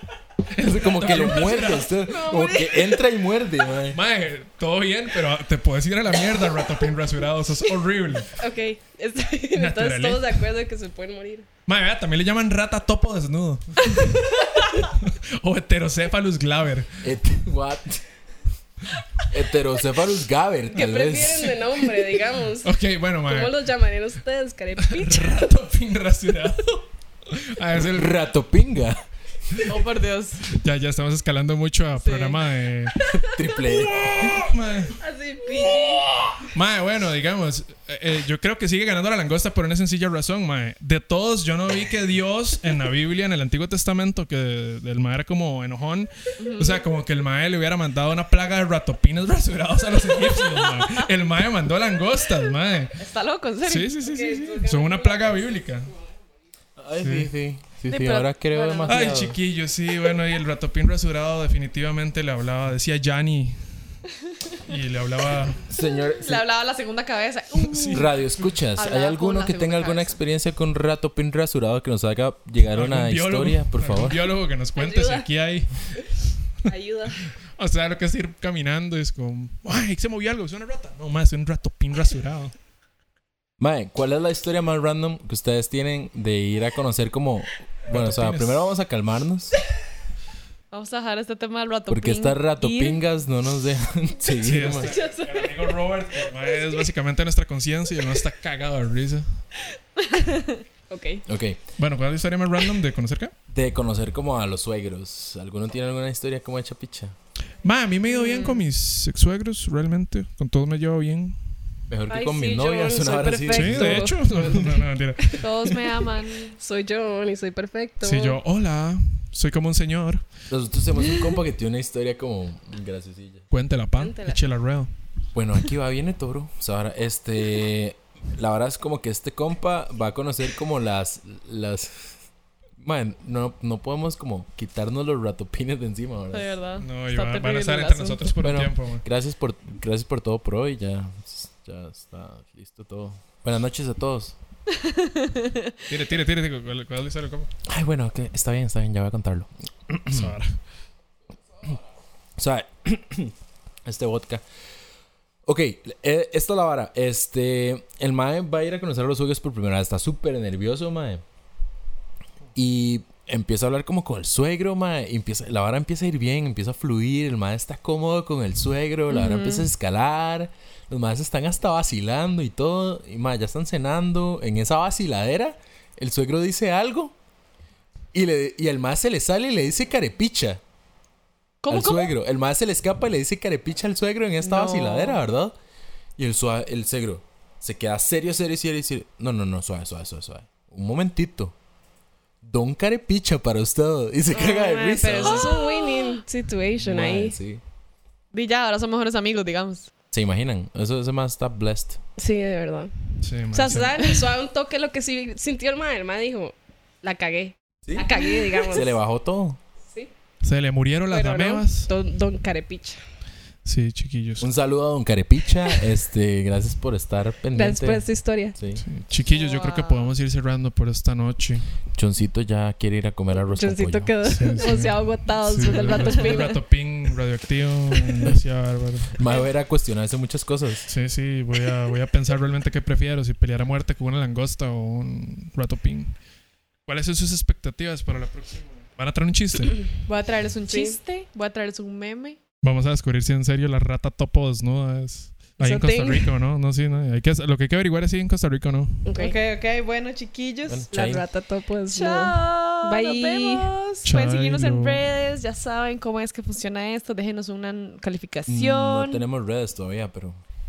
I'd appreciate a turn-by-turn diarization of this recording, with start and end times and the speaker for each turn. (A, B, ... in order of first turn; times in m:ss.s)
0:00.6-0:02.0 A
0:00.6-0:04.0 B
0:02.1-0:02.8 C
0:03.9-0:08.3 A
0:08.4-0:11.5 D
0:09.6-0:10.4 A
0:11.7-0:16.9 A
0:17.0-0:18.0 B
0:19.3-0:21.7 B
0:20.7-0:25.5 D
0:22.6-0:23.6 A
0:24.8-0:28.2 A
0:27.8-0:29.0 B
0:29.6-0:30.4 C
0:30.5-0:33.0 A
0:32.0-0:32.4 C
0:33.1-0:34.4 B
0:34.0-0:35.0 A
0:35.0-0:36.1 D
0:35.4-0:35.9 C
0:36.5-0:53.0 A
0:46.4-0:46.8 C
0:53.0-0:54.0 C
0:53.6-0:55.9 A
0:54.0-0:55.7 D
0:56.8-0:59.4 B
0:57.0-0:57.3 A
0:57.9-0:59.0 C
0:58.9-1:03.6 A
1:04.6-1:05.7 A
1:05.7-1:06.4 B
1:06.2-1:08.1 C
1:07.6-1:08.4 A
1:07.9-1:14.3 B
1:08.8-1:10.2 C
1:12.7-1:15.7 A
1:14.8-1:15.3 D
1:16.6-1:17.2 D
1:17.6-1:22.6 A
1:23.6-1:29.6 B
1:27.9-1:28.6 A
1:30.7-1:33.0 C
1:31.9-1:35.0 B
1:34.4-1:39.3 A
1:34.8-1:35.7 D
1:36.5-1:36.8 D
1:40.1-1:40.5 C
1:40.1-1:41.2 D
1:41.3-1:41.6 B
1:41.8-1:43.3 A
1:43.5-1:47.2 B
1:47.6-1:51.4 A
1:48.1-1:48.7 D
1:51.9-1:54.8 B
1:52.1-1:54.2 D
1:53.5-1:55.5 A
1:55.4-1:56.6 C
1:56.5-1:58.4 D
1:58.0-2:00.3 A
2:00.5-2:03.5 B
2:03.5-2:04.9 A
2:03.9-2:04.4 D
2:05.3-2:12.2 B
2:12.8-2:16.5 B
2:16.3-2:18.3 C
2:16.8-2:19.1 A
2:18.4-2:24.4 B
2:24.8-2:25.8 C
2:25.9-2:27.5 A
2:27.7-2:30.4 B
2:30.1-2:30.6 A
2:32.4-2:33.3 B
2:33.8-2:34.4 B
2:35.4-2:41.2 B
2:42.6-2:57.2 B
2:49.1-2:49.7 D
2:58.1-3:00.6 B
3:01.6-3:02.1 C
3:01.7-3:05.6 B
3:04.4-3:05.2 C
3:06.2-3:11.6 B
3:12.4-3:15.6 B
3:14.3-3:17.4 D
3:15.2-3:16.2 C
3:16.8-3:17.6 B
3:18.3-3:19.9 C
3:20.1-3:22.0 B
3:22.2-3:22.9 D
3:23.2-3:24.0 A
3:23.5-3:28.9 D
3:23.6-3:24.2 C
3:27.9-3:28.1 B
3:28.7-3:29.6 B
3:30.4-3:31.9 A
3:31.1-3:33.0 D
3:33.6-3:34.5 A
3:34.4-3:38.8 B
3:37.5-3:38.6 D
3:38.8-3:41.7 A
3:39.3-3:40.1 C
3:41.9-3:44.5 B
3:43.4-3:46.6 D
3:44.2-3:49.2 A
3:45.9-3:46.5 C
3:49.1-3:50.9 B
3:50.9-3:56.2 A
3:56.9-3:59.9 A
4:00.1-4:02.4 C
4:00.7-4:01.0 D
4:02.6-4:09.1 A
4:05.6-4:06.4 D
4:09.0-4:09.4 D
4:09.2-4:10.9 C
4:10.6-4:11.3 B
4:10.9-4:13.7 D
4:11.9-4:19.2 C
4:14.0-4:15.0 A
4:18.5-4:20.4 B